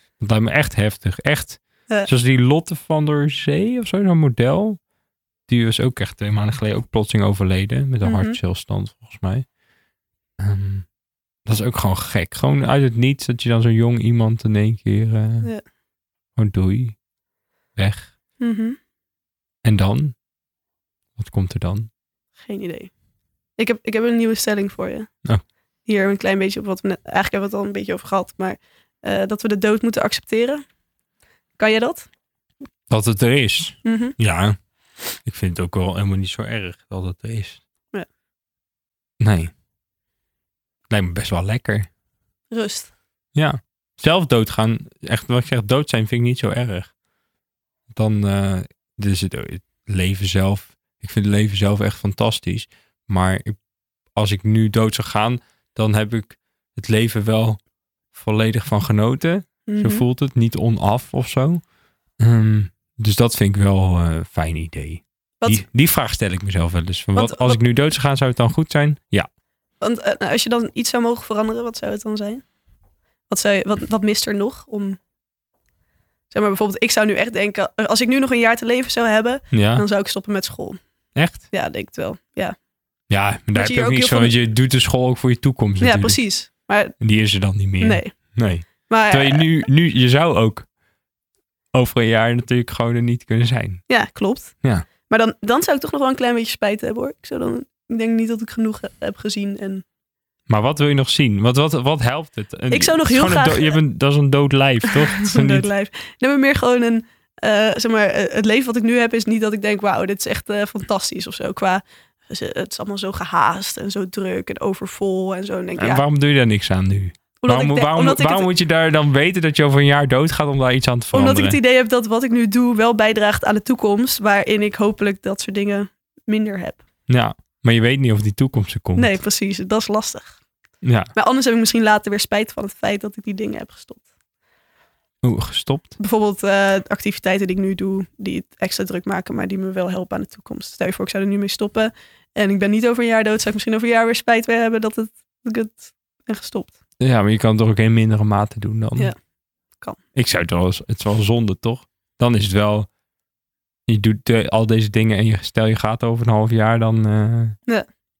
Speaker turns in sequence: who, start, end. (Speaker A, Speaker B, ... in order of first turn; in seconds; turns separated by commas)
Speaker A: 0.2-4.8, Speaker A: 5.5-9.5, Speaker B: 8.0-8.4, Speaker A: 10.4-10.9, Speaker A: 11.4-15.5, Speaker A: 16.3-17.0, Speaker A: 17.7-18.1, Speaker B: 18.4-18.8, Speaker A: 19.6-20.2, Speaker A: 21.2-21.9, Speaker B: 22.4-22.9, Speaker B: 23.6-25.1, Speaker B: 25.8-30.6, Speaker B: 31.6-32.1, Speaker A: 32.9-34.5, Speaker B: 33.8-34.1, Speaker A: 35.1-37.6, Speaker A: 39.2-39.5, Speaker A: 40.9-41.9, Speaker B: 42.5-42.9, Speaker A: 43.3-46.9, Speaker A: 47.9-53.6, Speaker A: 54.1-61.6, Speaker B: 59.6-60.0, Speaker A: 62.2-69.3, Speaker B: 67.1-67.6, Speaker B: 69.8-72.4, Speaker B: 73.3-75.0, Speaker B: 76.3-80.8, Speaker A: 79.5-79.8, Speaker A: 81.1-81.5, Speaker B: 81.4-82.5, Speaker A: 83.1-86.2, Speaker B: 83.5-84.3, Speaker B: 85.8-87.0, Speaker A: 87.0-90.7, Speaker B: 87.8-89.5, Speaker A: 91.7-93.9, Speaker B: 93.9-99.8, Speaker A: 100.5-105.7, Speaker B: 102.7-103.8, Speaker B: 104.9-116.0, Speaker A: 115.8-121.6, Speaker B: 117.4-118.5, Speaker B: 121.1-126.8, Speaker A: 127.1-129.2, Speaker B: 128.9-130.4, Speaker A: 130.8-131.1, Speaker B: 131.1-134.1, Speaker A: 135.2-135.9, Speaker B: 136.0-146.8, Speaker A: 147.0-149.1, Speaker A: 150.1-152.9, Speaker A: 153.9-157.6